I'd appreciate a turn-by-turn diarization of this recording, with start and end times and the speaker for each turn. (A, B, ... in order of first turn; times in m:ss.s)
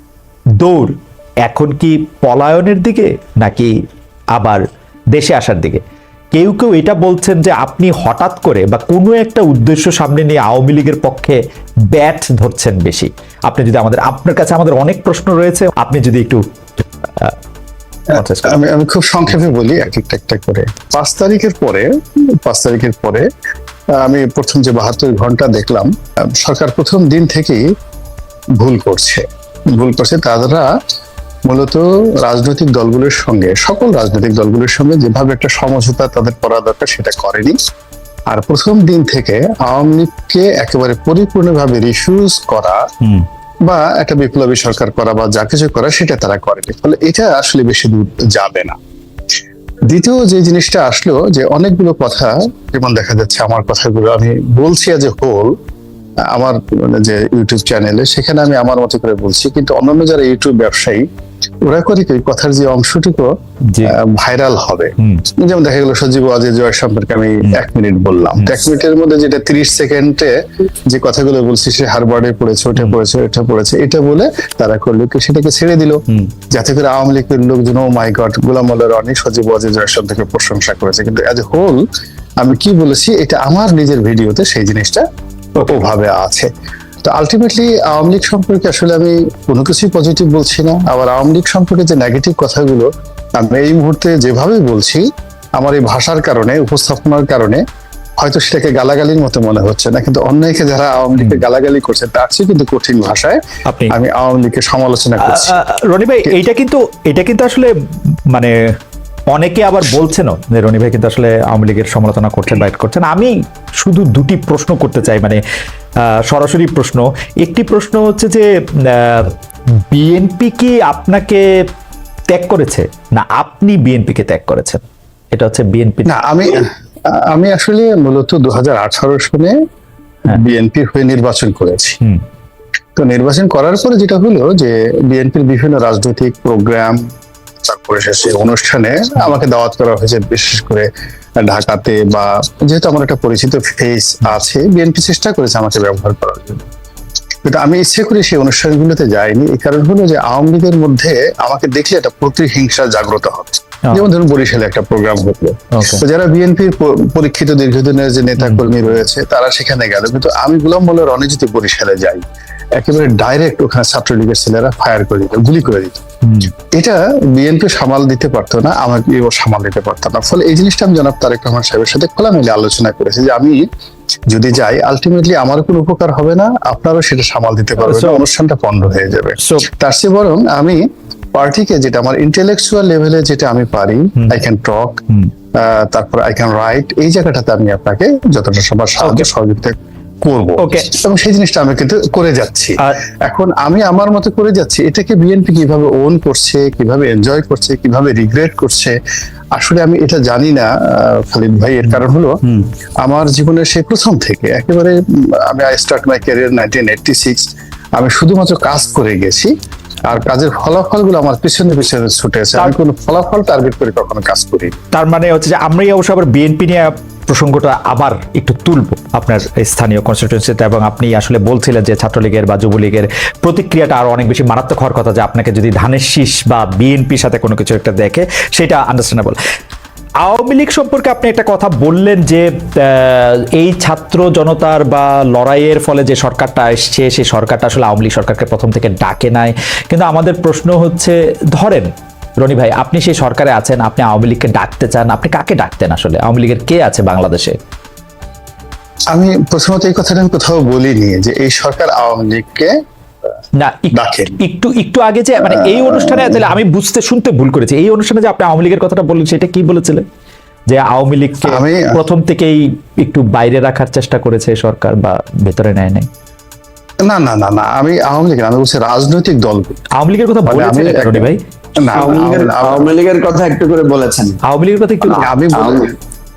0:00.6-0:00.9 A
0:01.4-0:03.7 A
0:04.4-0:04.6 A
0:05.1-0:05.8 A
0:06.3-0:11.4 A
0:11.9-0:16.4 A
0:18.1-0:18.6 A
0:18.1-0:21.9 B
0:22.4-0:23.3 B
0:23.9-0:27.6 B
0:28.6-0:30.7 B
0:31.4-0:37.6 B
0:38.3-0:42.8 B
0:43.6-0:48.8 B
0:49.8-0:55.5 B
0:56.3-1:01.0 B
1:01.6-1:10.3 B
1:03.7-1:04.0 A
1:05.0-1:05.2 A
1:10.9-1:21.8 B
1:22.4-1:26.5 B
1:25.6-1:25.8 A
1:27.0-1:35.0 B
1:35.6-1:37.6 B
1:38.2-1:43.4 B
1:41.1-1:41.4 A
1:43.7-1:43.9 A
1:43.9-1:45.6 B
1:45.2-1:47.7 A
1:49.3-1:55.4 A
1:56.0-2:01.4 A
2:02.3-2:06.2 A
2:06.0-2:09.6 B
2:10.2-2:12.0 B
2:13.0-2:17.0 B
2:17.6-2:26.6 B
2:27.4-2:42.2 B
2:35.7-2:36.0 A
2:38.4-2:38.7 A
2:42.8-2:46.0 B
2:46.2-2:46.5 A
2:46.7-2:53.6 B
2:54.3-3:00.8 B
2:57.8-2:58.2 A
2:59.4-2:59.7 A
3:01.4-3:05.0 B
3:05.6-3:19.0 B
3:09.0-3:09.3 A
3:10.6-3:10.9 A
3:19.5-3:22.4 B
3:21.9-3:22.6 A
3:23.0-3:27.4 B
3:28.0-3:29.5 B
3:30.0-3:34.8 B
3:34.9-3:49.4 A
3:50.2-4:07.6 A
4:09.1-4:12.7 B
4:13.6-4:20.0 A
4:13.9-4:14.4 B
4:15.4-4:16.5 B
4:20.7-4:26.1 A
4:21.4-4:22.0 B
4:27.0-4:29.8 B
4:30.0-4:31.4 A
4:30.4-4:32.9 B
4:31.9-4:34.4 C
4:34.4-4:35.3 A
4:35.0-4:35.9 B
4:35.5-4:35.9 C